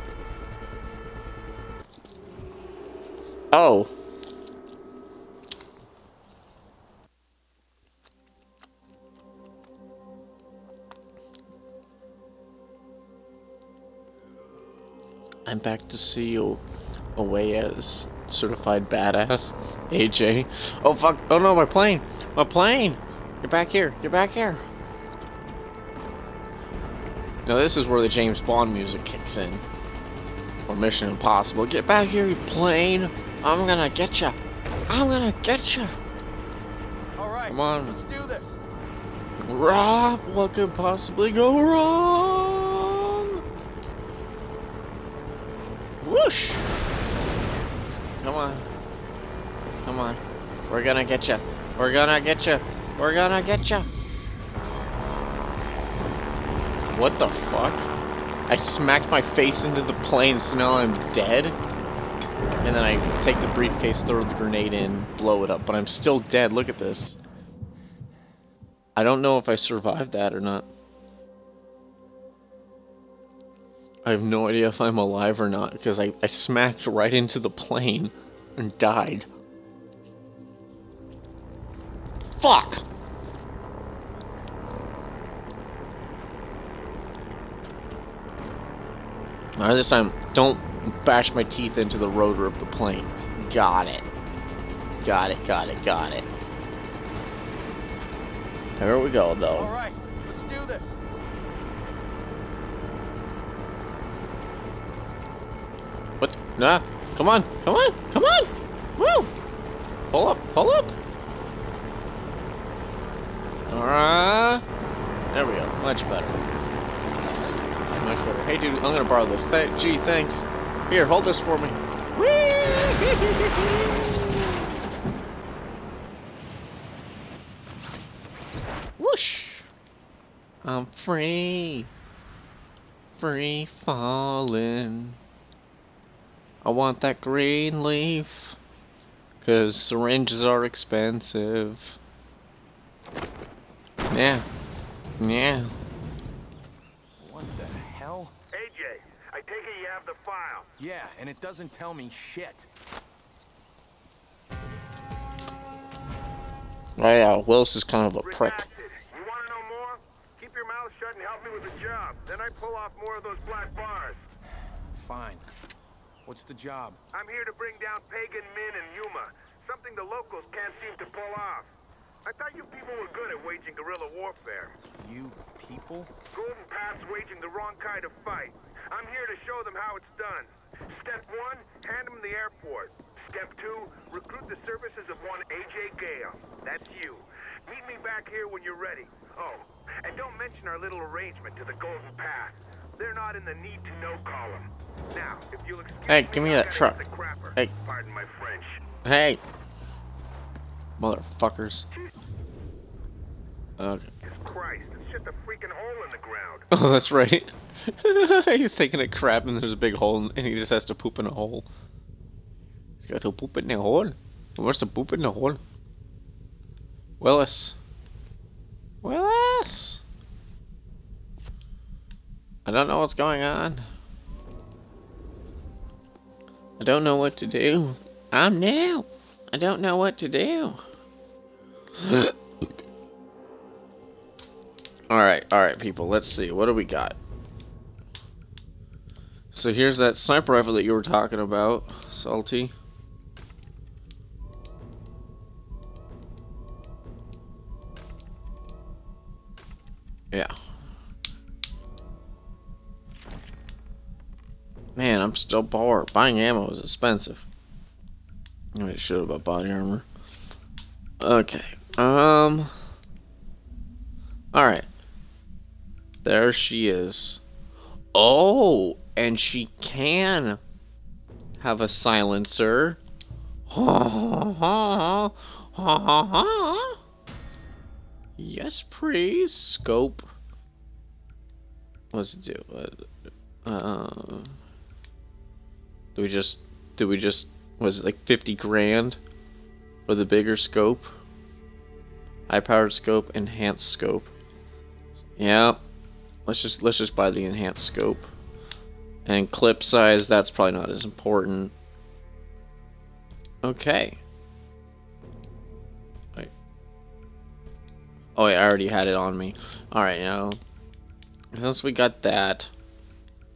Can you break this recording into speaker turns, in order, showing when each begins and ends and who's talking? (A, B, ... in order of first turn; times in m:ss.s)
0:03.5-0:03.9 A
0:15.4-0:16.6 A
0:17.1-0:24.6 A
0:27.4-0:29.6 A
0:30.7-0:34.4 A
0:34.9-0:36.0 A
0:37.2-0:38.6 B
0:37.5-0:38.0 A
0:39.4-0:43.4 A
0:46.0-0:46.6 A
0:48.2-0:48.7 A
0:49.8-0:53.9 A
0:56.9-0:57.9 A
0:58.5-1:01.6 A
1:02.6-1:07.2 A
1:09.0-1:10.7 A
1:14.0-1:19.3 A
1:22.4-1:22.8 A
1:29.6-1:34.0 A
1:35.0-1:36.2 A
1:38.8-1:39.7 A
1:39.5-1:41.0 B
1:46.2-1:49.3 A
1:50.1-1:51.0 A
1:53.7-1:54.6 A
1:55.3-1:56.4 A
1:58.0-2:04.1 A
2:09.0-2:09.7 A
2:10.6-2:11.9 A
2:13.2-2:15.2 A
2:16.6-2:18.6 A
2:19.4-2:22.0 A
2:24.1-2:24.4 A
2:25.2-2:25.7 A
2:27.2-2:28.3 B
2:28.5-2:30.7 C
2:30.8-2:32.7 B
2:37.0-2:38.6 A
2:38.2-2:44.3 C
2:45.0-2:45.5 B
2:46.2-2:47.0 B
2:47.1-2:51.7 C
2:52.2-2:54.8 C
2:55.0-2:56.1 B
2:56.3-3:18.8 C
3:16.1-3:17.0 A
3:19.0-3:19.4 A
3:21.0-3:21.9 A
3:23.8-3:24.1 A
3:24.2-3:26.7 C
3:26.7-3:31.7 A
3:33.0-3:35.6 A
3:37.2-3:37.8 A
3:39.0-3:40.0 A
3:42.6-3:43.9 A
3:46.8-3:50.8 A
3:52.0-3:52.4 A
3:55.1-3:57.2 A
3:59.5-4:02.7 A
4:15.0-4:17.5 A
4:18.7-4:20.0 A
4:21.2-4:22.7 A
4:24.5-4:24.9 A
4:26.2-4:27.4 A
4:28.1-4:30.6 A
4:31.6-4:33.0 A
4:33.7-4:37.0 A
4:38.4-4:40.3 A
4:42.1-4:43.0 A
4:43.6-4:44.6 A
4:46.1-4:49.2 A
4:50.1-4:51.1 A
4:52.5-4:54.3 A
4:55.4-4:55.8 A
4:56.4-4:58.3 A
4:59.2-5:01.7 A
5:03.6-5:04.2 A
5:08.4-5:10.6 A
5:11.5-5:12.7 A